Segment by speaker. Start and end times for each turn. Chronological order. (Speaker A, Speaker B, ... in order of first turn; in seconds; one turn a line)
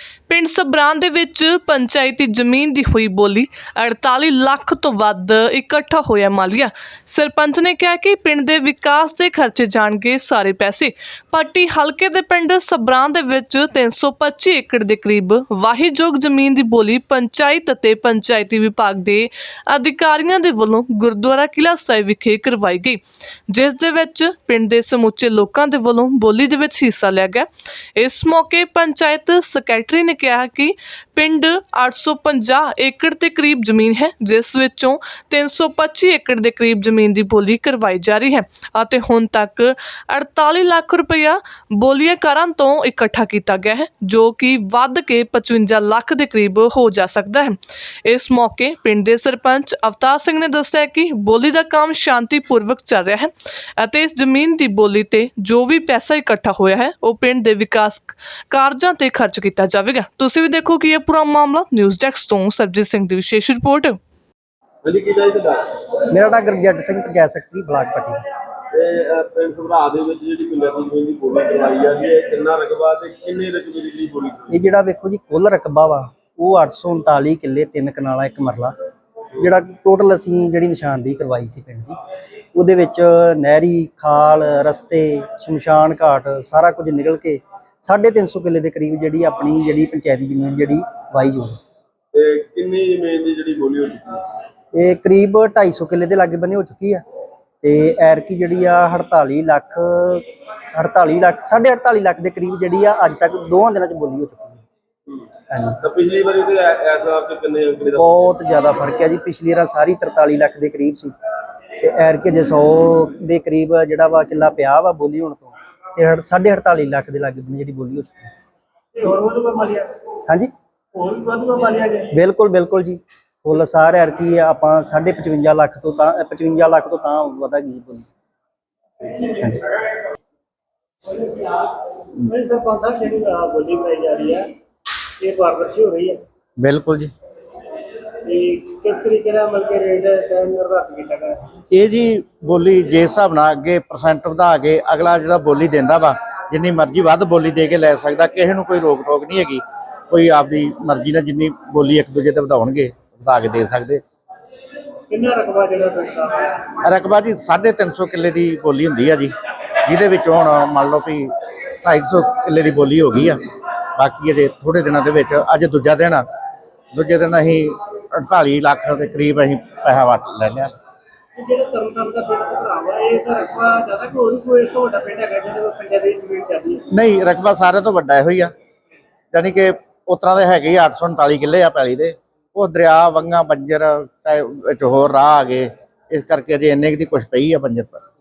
Speaker A: 0.3-64.0
Speaker B: 64.8-65.8
Speaker C: 66.1-68.2
Speaker B: 68.7-74.6
Speaker C: 74.5-78.8
Speaker C: 79.4-82.0
Speaker C: 82.5-91.6
Speaker B: 92.1-94.2
Speaker C: 94.7-97.0
Speaker C: 97.6-104.6
Speaker C: 105.5-105.8
Speaker B: 105.8-108.3
Speaker C: 108.0-111.1
Speaker C: 111.8-118.3
Speaker D: 119.0-119.9
Speaker D: 120.9-122.1
Speaker C: 122.1-128.1
Speaker C: 129.2-129.6
Speaker D: 131.1-131.7
Speaker D: 132.2-134.5
Speaker D: 135.2-136.2
Speaker E: 136.6-137.1
Speaker D: 138.2-141.4
Speaker E: 141.7-154.0
Speaker D: 155.1-156.8
Speaker E: 156.8-159.3
Speaker E: 159.9-161.3
Speaker E: 161.8-163.4
Speaker E: 164.0-166.2
Speaker E: 166.9-170.7
Speaker D: 171.4-176.8
Speaker E: 176.9-178.5
Speaker E: 179.3-188.0